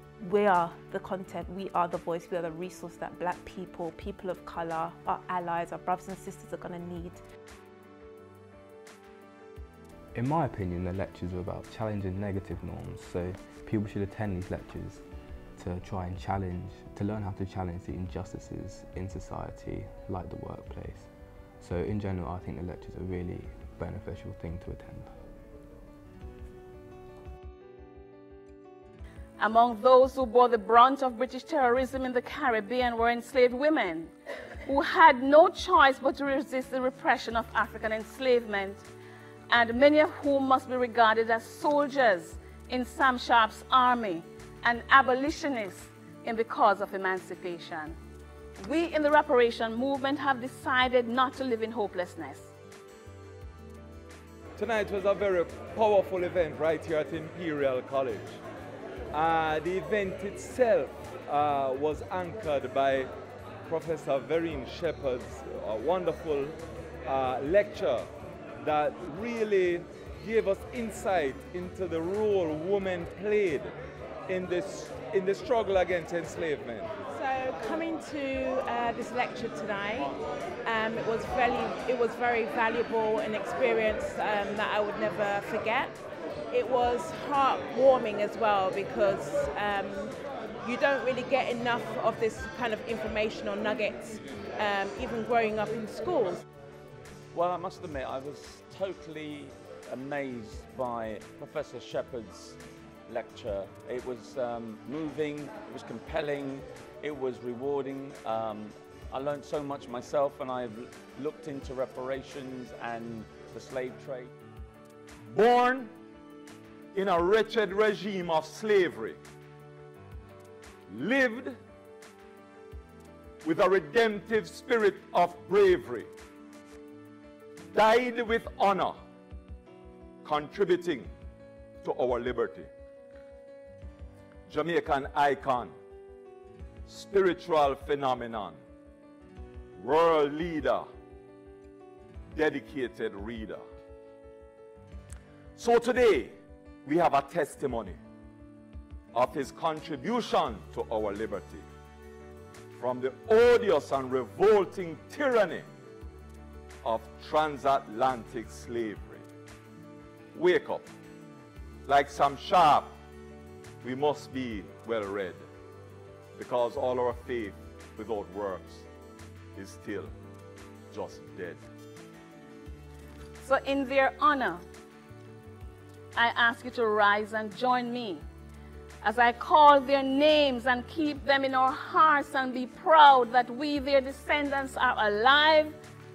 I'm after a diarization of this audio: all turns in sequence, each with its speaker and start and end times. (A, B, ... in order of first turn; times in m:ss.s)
0:00.2-0:07.2 A
0:10.1-0:15.0 B
0:15.6-0:25.2 B
0:29.4-0:34.1 C
0:34.7-0:38.9 C
0:39.5-0:48.0 C
0:48.6-0:52.5 C
0:54.6-0:58.4 D
0:59.1-1:03.1 D
1:03.7-1:08.1 D
1:08.6-1:13.8 D
1:14.3-1:16.9 D
1:17.1-1:26.0 E
1:26.5-1:36.4 E
1:37.3-1:54.3 F
1:55.3-1:55.9 D
1:56.9-1:59.2 D
2:00.9-2:01.6 D
2:03.4-2:06.1 D
2:07.7-2:09.0 D
2:10.2-2:11.1 D
2:11.8-2:12.7 D
2:14.5-2:15.8 D
2:16.9-2:18.6 D
2:19.8-2:20.9 D
2:22.3-2:23.6 D
2:25.6-2:28.0 D
2:29.1-2:31.7 D
2:32.7-2:35.7 D
2:36.8-2:39.3 D
2:40.3-2:40.9 D
2:41.9-2:43.0 D
2:43.8-2:45.5 D
2:46.4-2:48.9 D
2:49.6-2:50.1 D
2:50.9-2:51.6 D
2:53.4-2:54.6 C
2:56.2-2:58.2 C
2:59.0-3:05.8 C